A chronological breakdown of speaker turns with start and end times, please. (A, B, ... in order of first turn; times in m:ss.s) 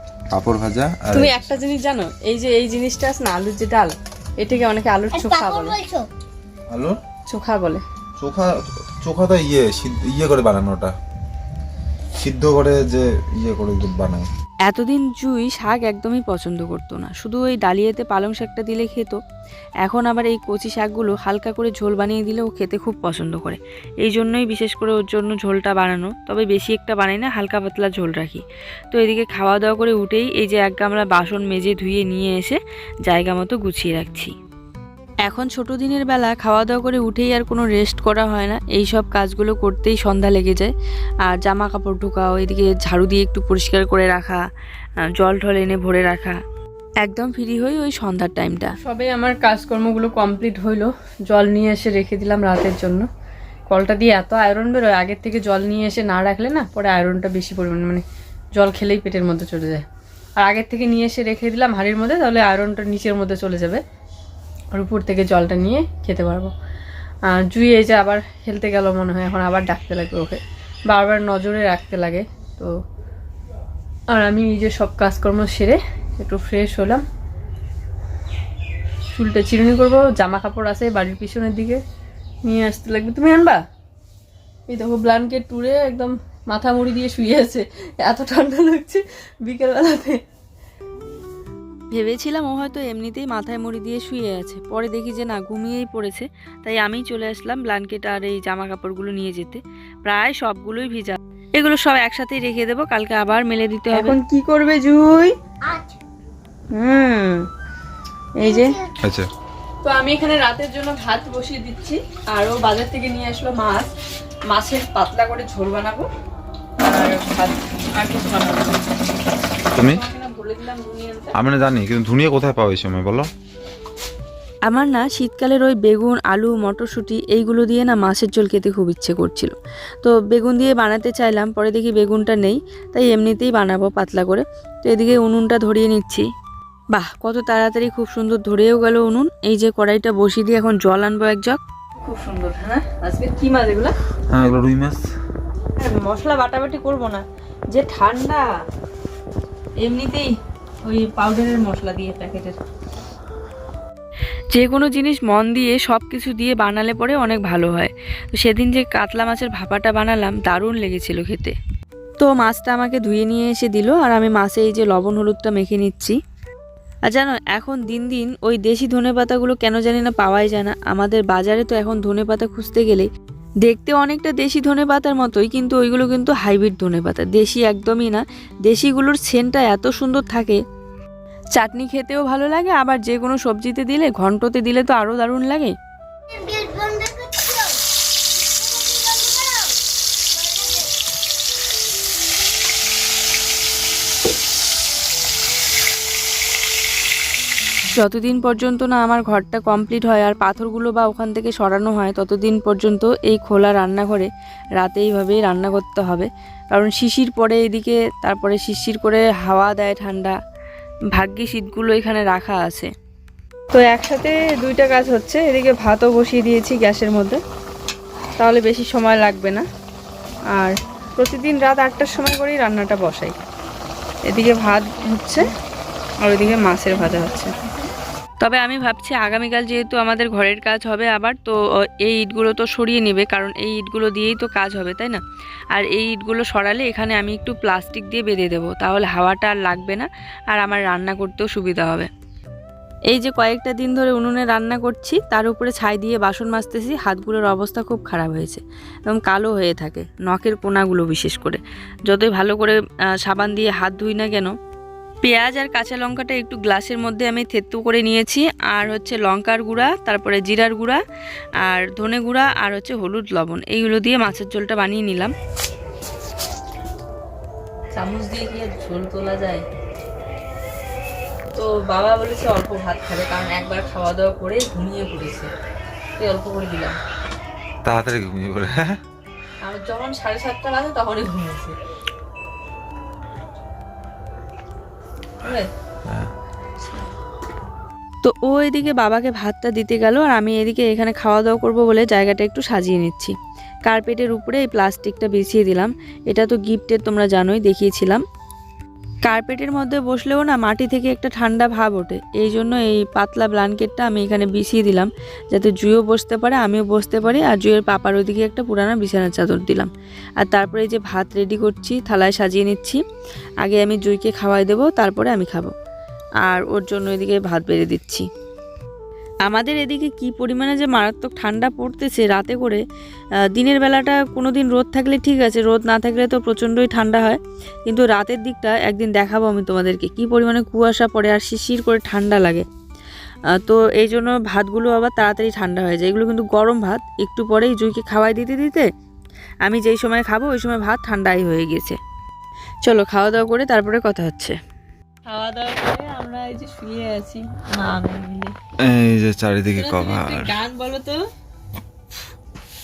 0:00.3-0:01.3 A
0:01.1-0:05.8 B
0:05.1-0:06.1 C
0:06.7-0:07.0 A
0:07.3-0:07.8 B
0:08.2-0:10.9 A
0:12.2-0:14.3 A
0:14.6-0:19.2 D
0:19.8-0:34.3 D
0:35.2-0:40.7 D
0:41.2-0:44.4 D
0:45.0-0:46.4 D
0:47.0-0:48.7 D
0:48.8-0:53.0 B
0:53.7-0:58.0 B
0:58.5-0:59.8 B
1:00.4-1:03.8 B
1:04.7-1:06.5 B
1:07.3-1:12.7 B
1:14.1-1:17.0 B
1:19.1-1:21.8 B
1:22.4-1:23.6 B
1:24.7-1:30.2 B
1:31.9-1:44.2 D
1:43.9-1:45.3 B
1:45.6-1:46.0 C
1:46.7-1:47.5 B
1:48.4-1:48.7 B
1:48.4-1:49.0 C
1:49.0-1:49.3 A
1:49.8-1:53.9 B
1:54.5-1:56.1 B
1:56.8-1:58.8 B
1:59.7-2:00.0 A
1:59.8-2:01.3 B
2:01.3-2:03.3 A
2:04.7-2:16.3 D
2:16.9-2:21.6 D
2:22.0-2:23.9 B
2:24.3-2:25.0 A
2:25.8-2:28.5 B
2:29.8-2:30.3 B
2:30.8-2:32.6 B
2:34.5-2:41.5 D
2:42.2-2:46.2 D
2:47.1-2:53.1 D
2:53.6-3:00.6 D
3:01.5-3:05.7 D
3:06.3-3:07.8 C
3:08.4-3:09.7 C
3:10.3-3:10.9 C
3:17.9-3:30.4 D
3:31.1-3:32.9 D
3:33.7-3:37.4 B
3:38.4-3:39.6 B
3:40.5-3:43.3 B
3:44.2-3:45.5 B
3:46.2-3:47.6 B
3:48.4-3:55.2 D
3:55.7-4:02.1 D
4:03.1-4:14.5 D
4:15.2-4:21.0 D
4:21.6-4:25.3 D
4:27.9-4:29.6 B
4:31.5-4:35.5 B
4:36.2-4:37.0 B
4:37.8-4:39.0 A
4:39.6-4:41.8 B
4:45.4-4:45.7 B
4:46.0-4:46.3 A
4:48.2-4:58.2 D
4:59.2-5:09.9 D
5:10.4-5:13.0 D
5:13.6-5:15.7 D
5:16.4-5:18.3 D
5:19.4-5:22.8 D
5:23.5-5:32.6 D
5:33.5-5:38.9 D
5:39.6-5:42.0 D
5:42.8-5:44.6 D
5:45.3-5:48.5 B
5:48.8-5:50.5 A
5:49.7-5:51.2 B